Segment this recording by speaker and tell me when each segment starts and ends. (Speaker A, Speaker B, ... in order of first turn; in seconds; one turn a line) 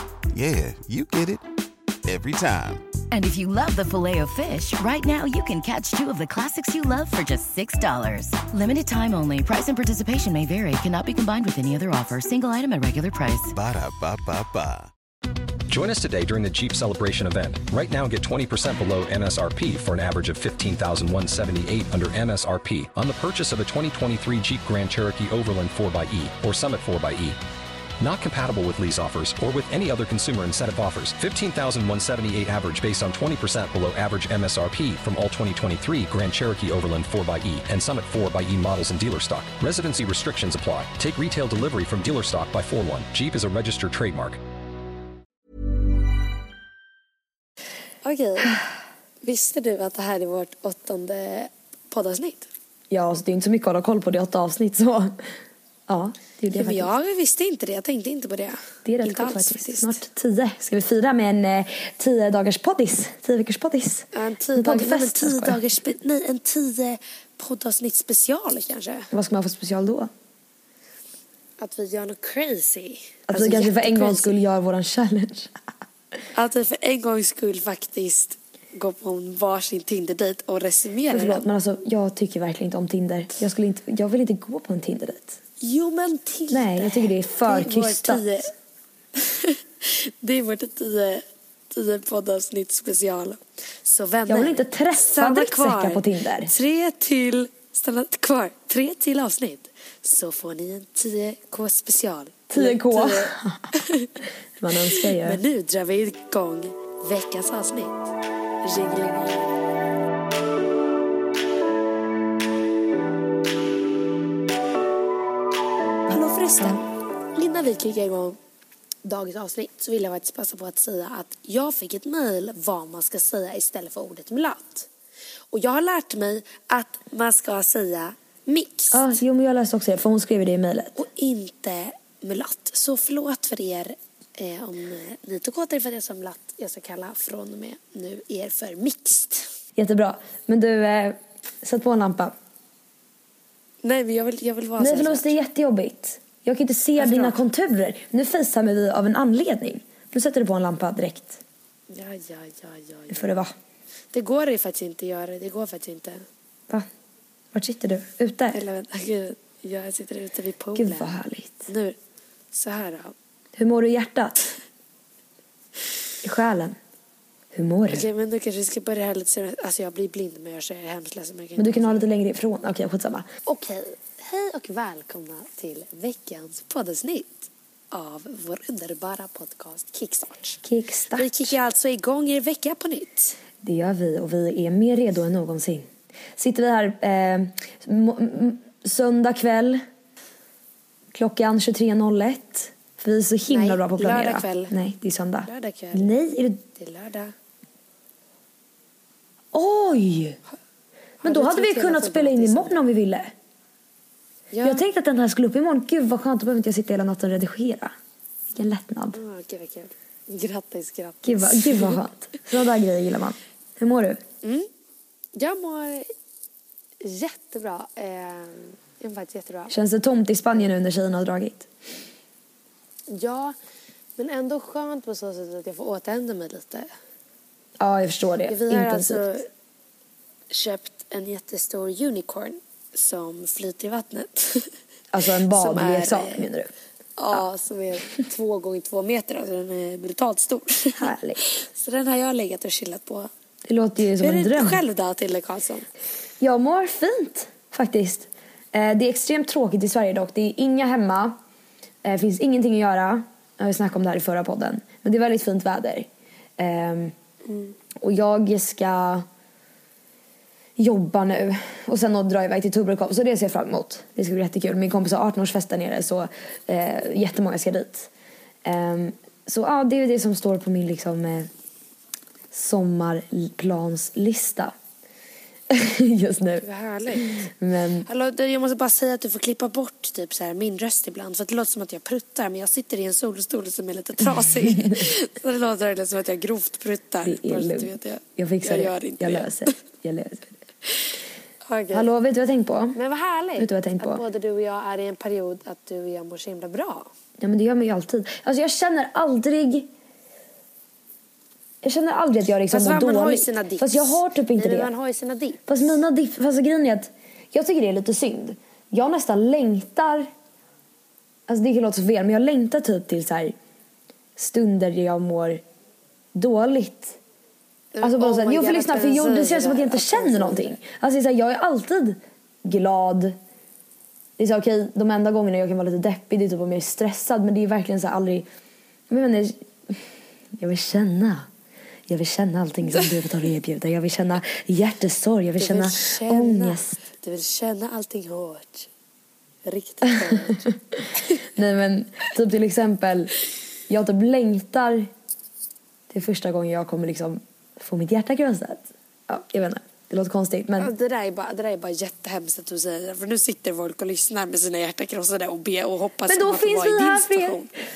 Speaker A: 0.3-1.4
Speaker A: 2.0-2.9
Speaker B: 3.1-13.5
Speaker A: 13.5-14.9
Speaker C: 15.7-27.4
Speaker C: 28.0-44.4
Speaker D: 48.0-48.6
Speaker D: 49.2-52.5
Speaker E: 52.9-55.2
Speaker E: 55.9-56.9
Speaker D: 56.5-60.0
Speaker E: 58.9-65.6
Speaker D: 64.1-69.1
Speaker E: 69.1-70.1
Speaker D: 71.6-74.4
Speaker E: 73.3-75.5
Speaker D: 76.3-81.5
Speaker E: 81.1-85.4
Speaker D: 85.6-88.5
Speaker E: 86.5-88.4
Speaker D: 89.2-104.1
Speaker E: 94.3-96.5
Speaker E: 102.5-103.7
Speaker E: 104.6-105.4
Speaker D: 104.7-108.0
Speaker D: 108.6-109.5
Speaker D: 116.1-118.4
Speaker D: 119.0-124.9
Speaker D: 125.5-129.2
Speaker E: 128.9-131.0
Speaker D: 130.9-139.5
Speaker E: 139.8-142.3
Speaker D: 143.8-145.3
Speaker E: 144.8-151.4
Speaker D: 147.0-147.4
Speaker D: 151.9-153.3
Speaker E: 153.1-153.5
Speaker D: 154.1-156.3
Speaker E: 157.5-158.6
Speaker D: 158.5-162.0
Speaker E: 160.8-161.7
Speaker D: 162.5-163.2
Speaker E: 163.6-164.5
Speaker E: 166.2-166.8
Speaker E: 167.5-168.1
Speaker D: 167.9-172.1
Speaker E: 171.6-173.3
Speaker D: 173.5-180.6
Speaker E: 180.6-181.6
Speaker D: 181.2-183.4
Speaker E: 183.6-189.8
Speaker E: 191.1-196.6
Speaker D: 193.5-194.8
Speaker D: 195.5-196.1
Speaker D: 196.8-197.3
Speaker E: 199.5-200.4
Speaker D: 201.2-202.9
Speaker E: 201.2-203.3
Speaker D: 204.5-204.8
Speaker E: 204.6-207.9
Speaker E: 208.5-209.2
Speaker D: 209.1-212.0
Speaker E: 211.2-214.2
Speaker D: 214.4-214.7
Speaker D: 215.3-216.1
Speaker D: 217.0-219.8
Speaker E: 219.7-221.7
Speaker D: 223.1-223.6
Speaker D: 224.2-226.9
Speaker E: 227.8-229.2
Speaker D: 228.5-229.5
Speaker D: 230.5-234.8
Speaker E: 235.1-236.7
Speaker D: 235.5-236.5
Speaker D: 237.2-243.3
Speaker E: 241.0-241.4
Speaker E: 243.7-244.8
Speaker D: 244.2-245.9
Speaker E: 246.4-251.4
Speaker E: 252.0-257.1
Speaker D: 257.5-257.8
Speaker E: 258.0-259.3
Speaker E: 260.8-268.1
Speaker E: 268.6-271.5
Speaker E: 272.5-274.8
Speaker E: 275.7-278.1
Speaker D: 276.6-277.5
Speaker D: 278.1-289.8
Speaker E: 284.3-285.1
Speaker E: 287.2-290.6
Speaker D: 290.9-292.1
Speaker E: 291.9-293.0
Speaker D: 292.9-297.1
Speaker E: 293.6-294.2
Speaker E: 297.4-299.9
Speaker E: 301.8-304.9
Speaker D: 302.7-306.0
Speaker E: 305.7-310.3
Speaker E: 311.5-313.6
Speaker E: 314.4-315.6
Speaker E: 316.4-317.2
Speaker D: 317.9-320.8
Speaker E: 318.0-323.4
Speaker E: 324.4-328.5
Speaker E: 329.1-330.1
Speaker E: 330.6-331.5
Speaker E: 332.1-337.0
Speaker D: 335.6-338.9
Speaker D: 339.6-341.4
Speaker E: 340.7-343.3
Speaker E: 343.9-345.1
Speaker E: 346.1-350.9
Speaker D: 350.8-357.7
Speaker E: 356.3-357.7